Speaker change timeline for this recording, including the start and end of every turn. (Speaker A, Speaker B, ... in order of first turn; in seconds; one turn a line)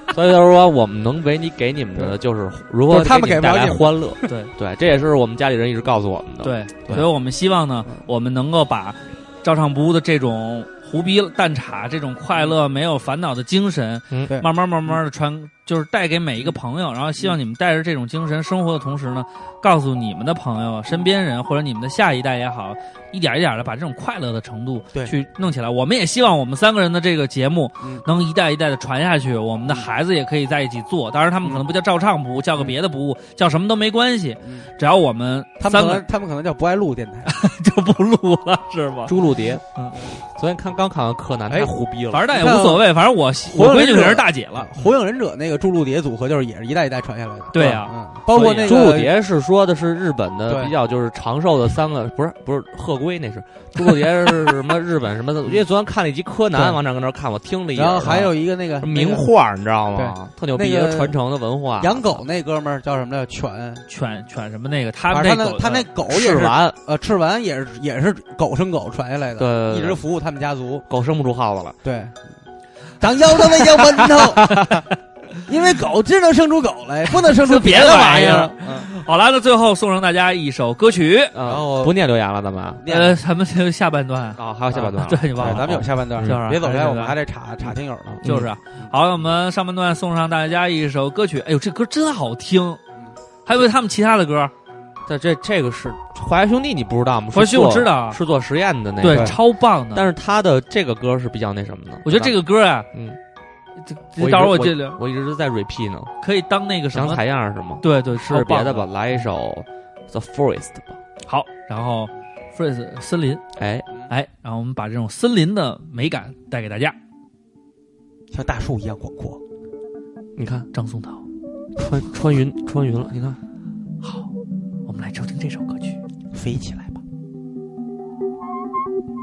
Speaker A: 0.1-7.0
Speaker B: 2.9-4.2
Speaker C: 4.3-4.5
Speaker C: 6.4-36.0
Speaker B: 34.4-34.7
Speaker B: 35.6-37.3
Speaker C: 37.2-39.1
Speaker A: 39.1-42.2
Speaker C: 42.1-44.7
Speaker B: 42.3-42.9
Speaker B: 43.5-49.1
Speaker C: 47.5-48.7
Speaker A: 48.3-62.2
Speaker B: 50.5-50.7
Speaker B: 56.5-56.8
Speaker B: 57.7-59.3
Speaker B: 59.9-61.1
Speaker B: 61.8-63.9
Speaker C: 63.9-65.9
Speaker B: 65.1-70.8
Speaker A: 66.1-66.8
Speaker A: 69.4-70.0
Speaker A: 70.9-71.8
Speaker B: 71.8-72.3
Speaker B: 73.0-74.8
Speaker C: 74.0-74.7
Speaker A: 74.3-74.6
Speaker B: 75.4-78.9
Speaker C: 77.2-81.3
Speaker A: 81.3-82.8
Speaker B: 81.4-82.0
Speaker B: 82.8-83.2
Speaker C: 82.8-87.2
Speaker A: 84.4-86.4
Speaker B: 85.4-88.2
Speaker A: 88.2-88.5
Speaker C: 88.2-92.8
Speaker C: 93.5-94.5
Speaker A: 95.0-99.4
Speaker C: 97.3-98.2
Speaker C: 99.0-100.1
Speaker B: 99.1-99.3
Speaker A: 99.9-102.3
Speaker C: 102.0-102.9
Speaker A: 102.9-103.2
Speaker C: 103.8-105.0
Speaker A: 104.2-106.1
Speaker C: 106.2-107.2
Speaker A: 106.9-111.0
Speaker C: 107.8-108.9
Speaker C: 111.2-113.4
Speaker A: 113.6-113.9
Speaker C: 114.1-117.0
Speaker B: 118.3-119.4
Speaker A: 120.3-120.7
Speaker C: 120.7-121.2
Speaker A: 121.8-123.4
Speaker C: 124.0-124.3
Speaker C: 124.8-126.0
Speaker B: 126.3-127.0